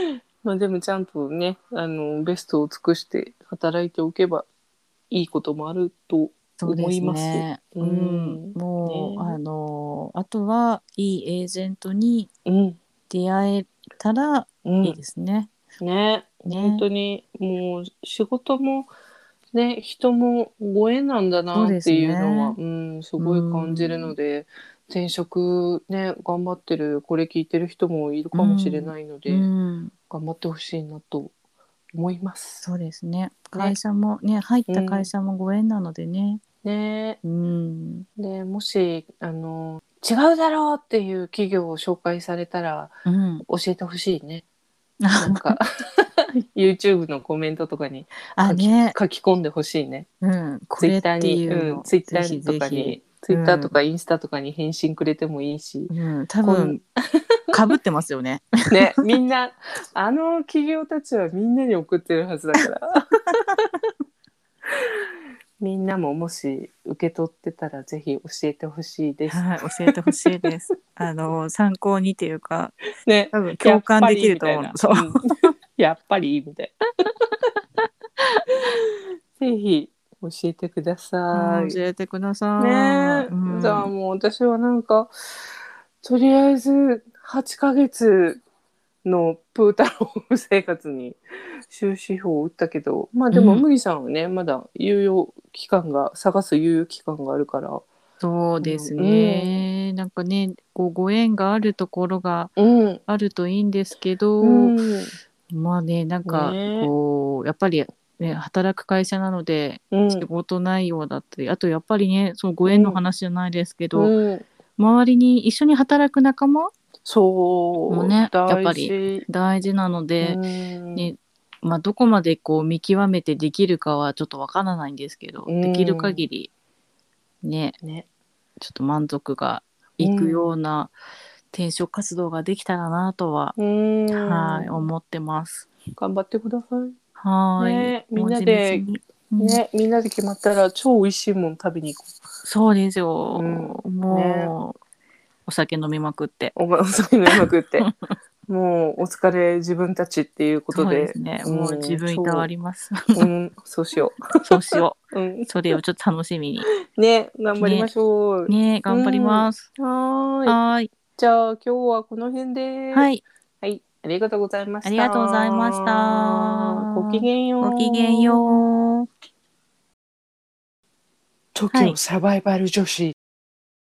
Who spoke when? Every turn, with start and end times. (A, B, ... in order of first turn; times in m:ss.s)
0:00.4-0:04.5 A
0:05.1-0:09.4 A
0:06.6-0:12.3 B
0:12.4-0:12.8 A
0:13.1-0:15.5 B
0:14.6-0:15.0 A
0:15.8-0:18.9 A
0:16.5-0:16.8 B
0:19.5-0:29.5 A
0:21.5-0:22.6 B
0:23.2-0:24.1 B
0:28.3-0:29.9 B
0:30.1-0:31.3 A
0:31.9-0:32.6 A
0:32.6-0:36.4 B
0:34.7-0:35.1 A
0:36.6-0:37.2 A
0:37.2-0:38.0 B
0:38.2-0:42.9 A
0:43.0-0:43.4 B
0:43.5-0:44.4 A
0:45.0-0:45.6 B
0:45.1-0:50.1 A
0:48.4-0:49.0 B
0:50.2-0:53.8 B
0:50.8-0:55.9 A
0:55.9-0:56.8 B
0:56.4-0:57.3 A
0:57.5-0:59.1 B
0:58.7-1:03.6 A
1:04.7-1:05.0 A
1:05.6-1:10.1 A
1:09.3-1:12.8 B
1:13.0-1:15.2 A
1:13.3-1:15.2 B
1:15.8-1:16.8 A
1:19.4-1:21.8 A
1:21.3-1:23.9 B
1:22.6-1:25.1 A
1:26.0-1:28.4 A
1:29.0-1:37.8 A
1:33.3-1:33.6 B
1:38.2-1:42.5 B
1:38.6-1:39.6 A
1:42.6-1:43.0 A
1:43.1-1:44.8 B
1:44.4-1:45.1 A
1:45.5-1:54.1 B
1:46.2-1:46.9 A
1:49.9-1:50.2 A
1:52.7-1:53.0 A
1:54.0-1:54.5 A
1:54.8-1:56.7 B
1:57.0-1:59.2 A
1:57.9-2:00.4 B
2:00.2-2:01.1 A
2:01.0-2:06.5 B
2:05.5-2:06.2 A
2:07.4-2:07.8 B
2:07.8-2:08.1 A
2:08.6-2:10.9 B
2:10.0-2:10.5 A
2:11.5-2:13.6 B
2:13.6-2:14.9 A
2:14.1-2:15.7 B
2:16.0-2:17.0 A
2:17.2-2:19.6 B
2:17.6-2:18.8 A
2:19.4-2:22.2 A
2:22.4-2:24.8 B
2:23.4-2:24.5 A
2:25.5-2:26.5 B
2:26.5-2:27.9 A
2:27.3-2:28.0 B
2:28.5-2:32.5 A
2:30.7-2:33.3 B
2:33.1-2:34.2 A
2:34.4-2:36.7 B
2:34.7-2:35.5 A
2:36.9-2:40.6 A
2:37.6-2:37.9 B
2:38.5-2:39.7 B
2:40.5-2:40.9 B
2:41.2-2:48.6 A
2:42.9-2:43.2 B
2:44.8-2:49.1 B
2:51.5-2:53.1 A
2:51.7-2:52.0 B